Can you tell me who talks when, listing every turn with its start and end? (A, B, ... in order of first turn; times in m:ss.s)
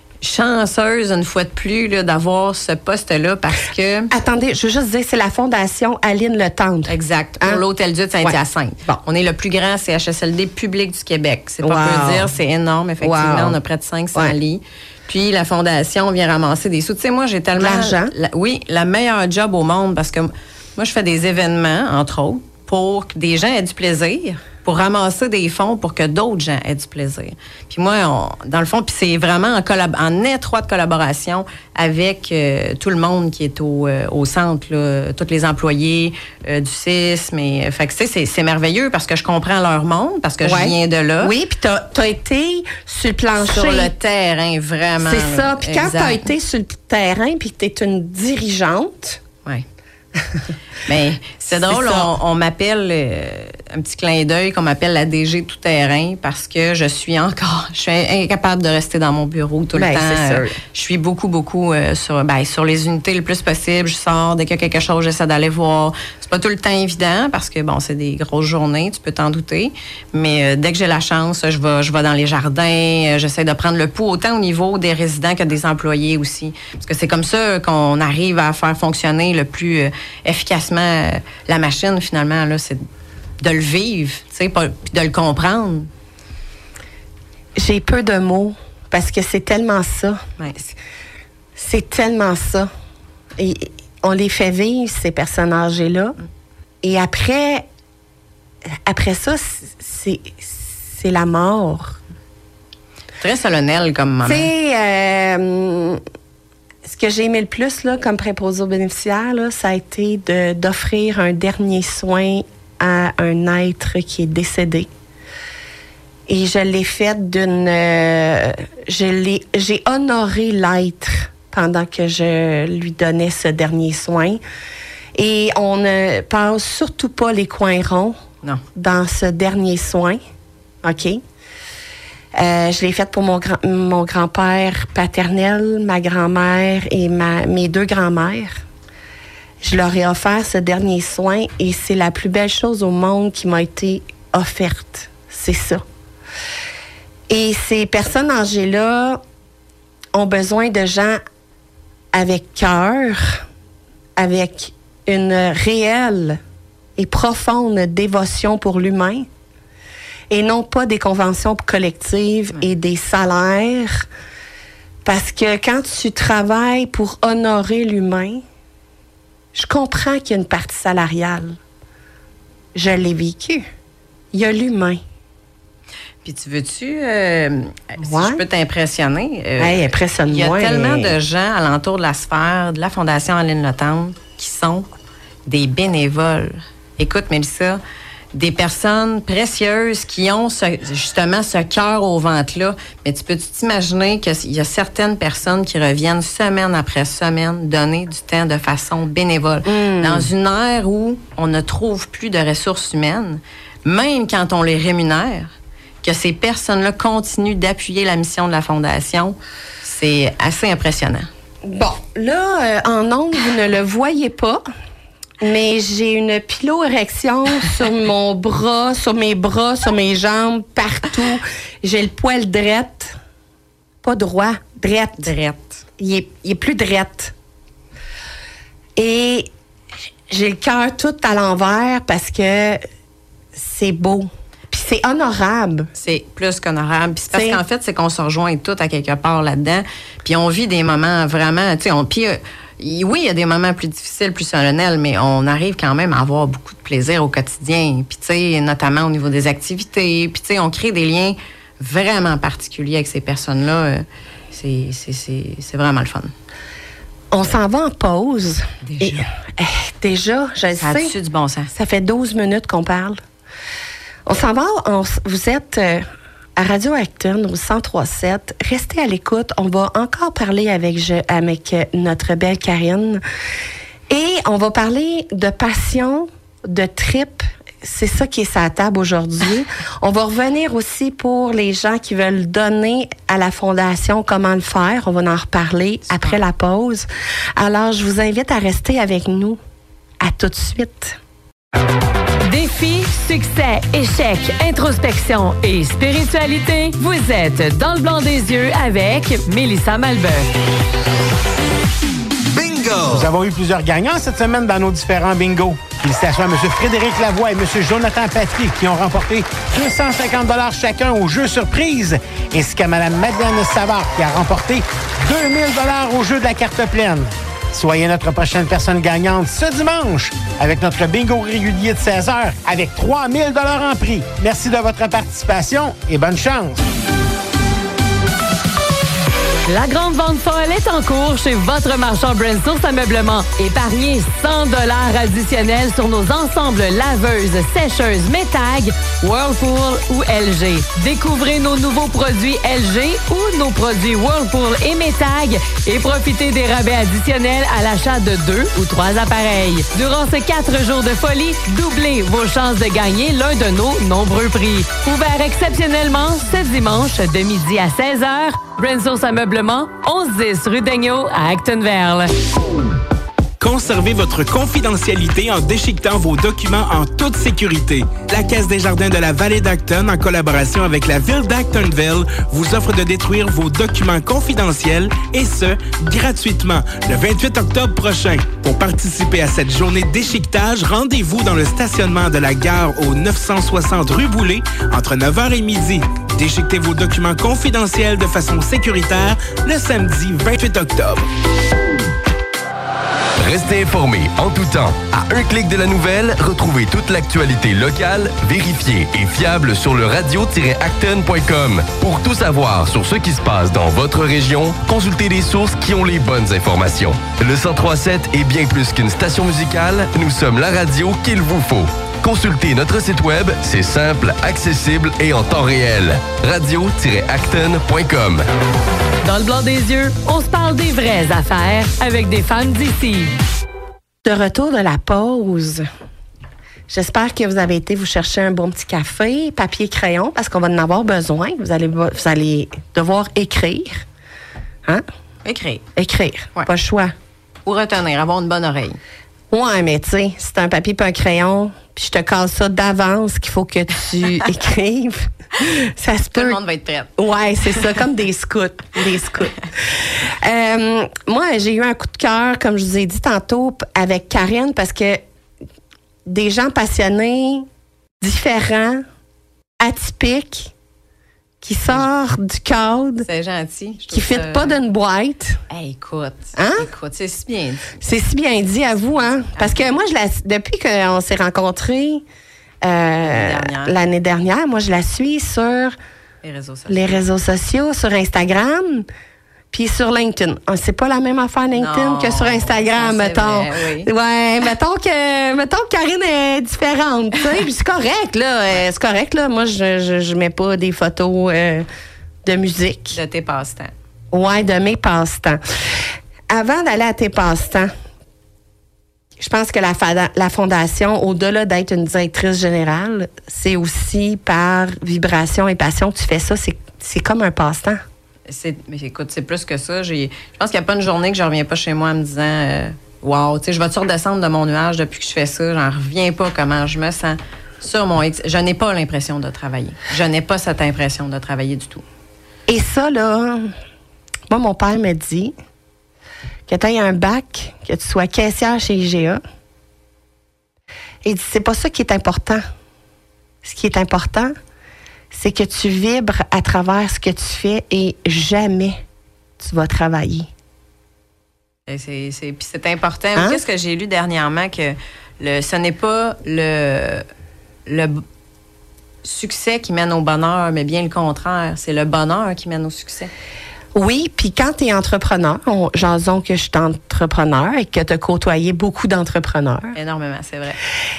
0:00.2-0:04.1 A
0:04.1-0:07.6 B
0:06.9-0:41.3 A
0:08.2-0:09.0 B
0:11.6-0:12.3 B
0:13.0-0:13.6 B
0:17.6-0:18.1 B
0:40.4-0:43.9 B
0:43.4-0:46.3 A
0:45.0-0:49.2 B
0:50.8-1:22.8 A
0:51.6-0:52.1 B
0:59.7-1:00.6 B
1:23.4-1:25.9 A
1:27.6-1:30.2 B
1:30.4-1:30.7 A
1:31.6-1:32.7 B
1:33.4-1:36.2 B
1:36.8-1:37.6 B
1:38.8-1:42.0 B
1:43.2-1:44.5 A
1:44.2-1:46.0 B
1:46.8-1:54.9 B
1:56.3-2:04.4 B
2:05.1-2:08.2 B
2:08.7-2:10.2 B
2:10.8-2:11.2 B
2:12.3-2:18.6 B
2:19.6-2:25.8 B
2:27.3-2:29.2 B
2:30.1-2:31.2 B
2:32.1-2:33.4 B
2:34.2-2:36.4 B
2:37.0-2:39.3 B
2:40.3-2:44.1 B
2:45.0-2:48.4 B
2:49.5-2:51.6 B
2:52.7-2:53.7 B
2:54.3-2:55.0 B
2:56.2-3:04.9 A
2:58.0-2:58.4 B
2:59.6-3:01.1 B
3:05.4-3:07.8 A
3:08.3-3:25.5 A
3:19.6-3:20.3 B
3:26.0-3:31.3 A
3:31.6-3:34.6 B
3:35.4-3:43.2 B
3:44.0-3:45.3 B
3:45.2-3:45.8 A
3:46.0-3:47.3 B
3:49.0-3:49.5 B
3:50.3-3:52.8 B
3:53.5-3:55.9 B
3:56.0-4:16.3 A
3:57.3-3:57.6 B
4:17.3-4:21.1 B
4:18.8-4:19.3 A
4:20.8-4:21.7 A
4:21.7-4:23.2 B
4:24.2-4:33.2 B
4:34.1-4:49.6 B
4:46.1-4:46.4 A
4:50.2-4:51.2 B
4:52.4-5:00.5 C
5:02.5-5:26.8 D
5:29.7-6:02.3 C
6:03.6-6:31.3 E
6:33.4-6:58.4 F
6:59.2-7:03.3 C
7:04.2-7:05.8 B
7:06.9-7:14.0 B
7:15.4-7:15.8 A
7:16.0-7:17.1 B
7:17.6-7:19.0 A
7:19.5-7:26.6 B
7:26.3-7:27.1 A
7:27.2-7:35.2 B
7:36.2-7:37.7 B
7:38.2-7:39.0 B
7:39.8-7:40.7 B
7:41.6-7:43.2 B
7:43.2-7:44.8 A
7:44.1-7:45.6 B
7:45.7-7:47.9 A
7:46.6-7:46.9 B
7:48.0-7:52.2 B
7:49.5-7:49.8 A
7:52.8-7:56.0 B
7:53.2-7:54.0 A
7:56.4-7:57.2 A
7:56.9-7:59.1 B
7:59.7-8:11.9 B
8:01.7-8:04.1 A
8:12.4-8:13.2 B
8:13.1-8:13.9 A
8:14.3-8:17.9 B
8:19.4-8:28.0 B
8:28.5-8:42.0 A
8:42.7-8:43.7 B
8:44.5-8:45.5 B
8:46.7-8:49.4 B
8:51.2-8:52.6 B
8:53.6-8:54.5 B
8:55.3-8:59.0 B
8:59.6-9:00.5 B
9:01.9-9:07.2 A
9:07.8-9:08.2 A
9:09.2-9:13.3 A
9:13.9-9:20.0 B
9:19.9-9:20.8 A